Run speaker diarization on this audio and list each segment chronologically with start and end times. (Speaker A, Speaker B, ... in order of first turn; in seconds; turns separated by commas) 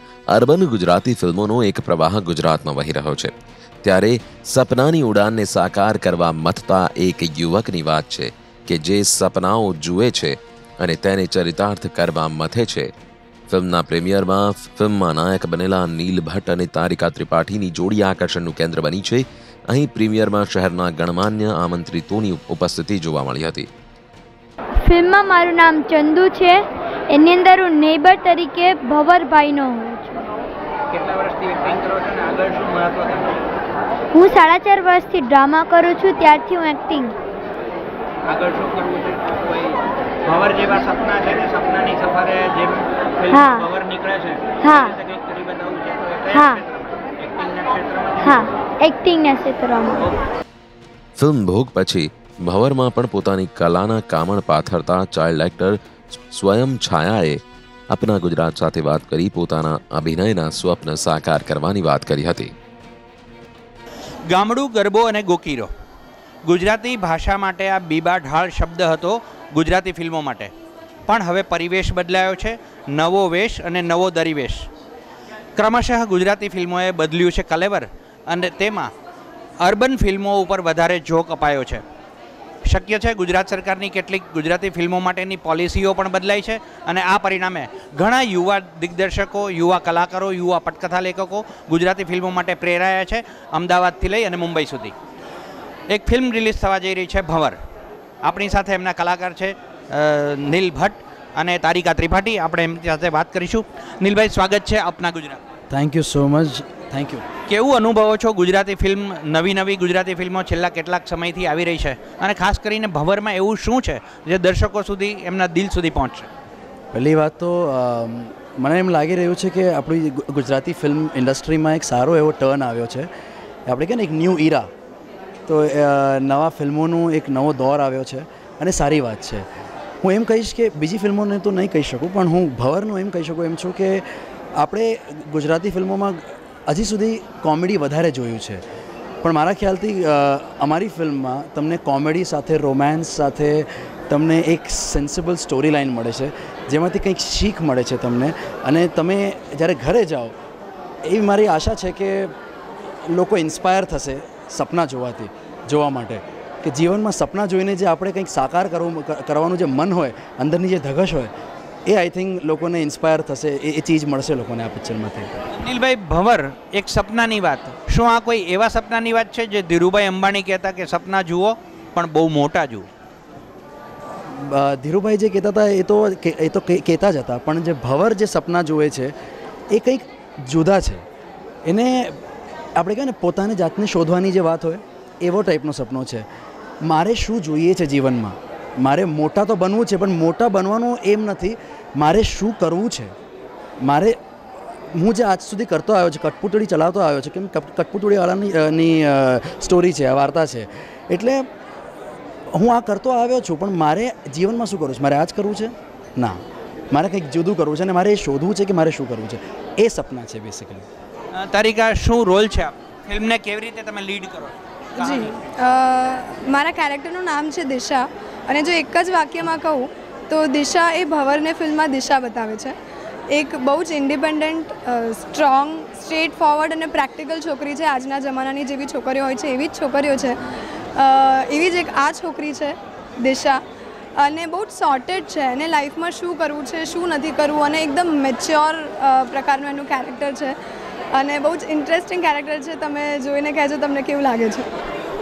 Speaker A: 0.3-12.9, Speaker A: 13.5-23.7, Speaker B: 24.8-30.3, Speaker C: 30.9-33.4, Speaker B: 34.1-37.1, Speaker C: 38.3-48.5, Speaker B: 43.3-43.7, Speaker B: 44.6-45.0, Speaker B: 46.3-46.6, Speaker B: 48.2-50.1, Speaker A: 51.2-62.5, Speaker C: 64.3-65.7, Speaker C: 66.5-70.5, Speaker C: 71.1-74.7, Speaker C: 75.6-78.9, Speaker C: 79.6-81.8, Speaker C: 82.7-94.9, Speaker C: 95.9-97.6, Speaker C: 98.2-105.4, Speaker D: 105.7-107.3, Speaker C: 107.5-116.3, Speaker D: 116.9-123.1, Speaker D: 123.7-124.7, Speaker D: 125.5-129.5, Speaker D: 130.0-134.1, Speaker D: 134.6-138.6, Speaker D: 139.2-150.3, Speaker D: 151.1-152.3, Speaker D: 153.1-161.3, Speaker D: 161.9-165.3, Speaker C: 165.5-172.9, Speaker D: 174.3-179.1, Speaker D: 179.7-181.0, Speaker D: 181.7-182.2, Speaker D: 182.8-186.3, Speaker D: 186.8-193.1, Speaker D: 193.8-194.2, Speaker D: 194.9-201.5, Speaker D: 202.5-206.4, Speaker D: 206.9-210.9, Speaker C: 211.3-215.3, Speaker E: 215.0-222.8, Speaker E: 223.3-230.4, Speaker E: 230.9-233.6, Speaker E: 234.2-240.6, Speaker E: 241.1-244.7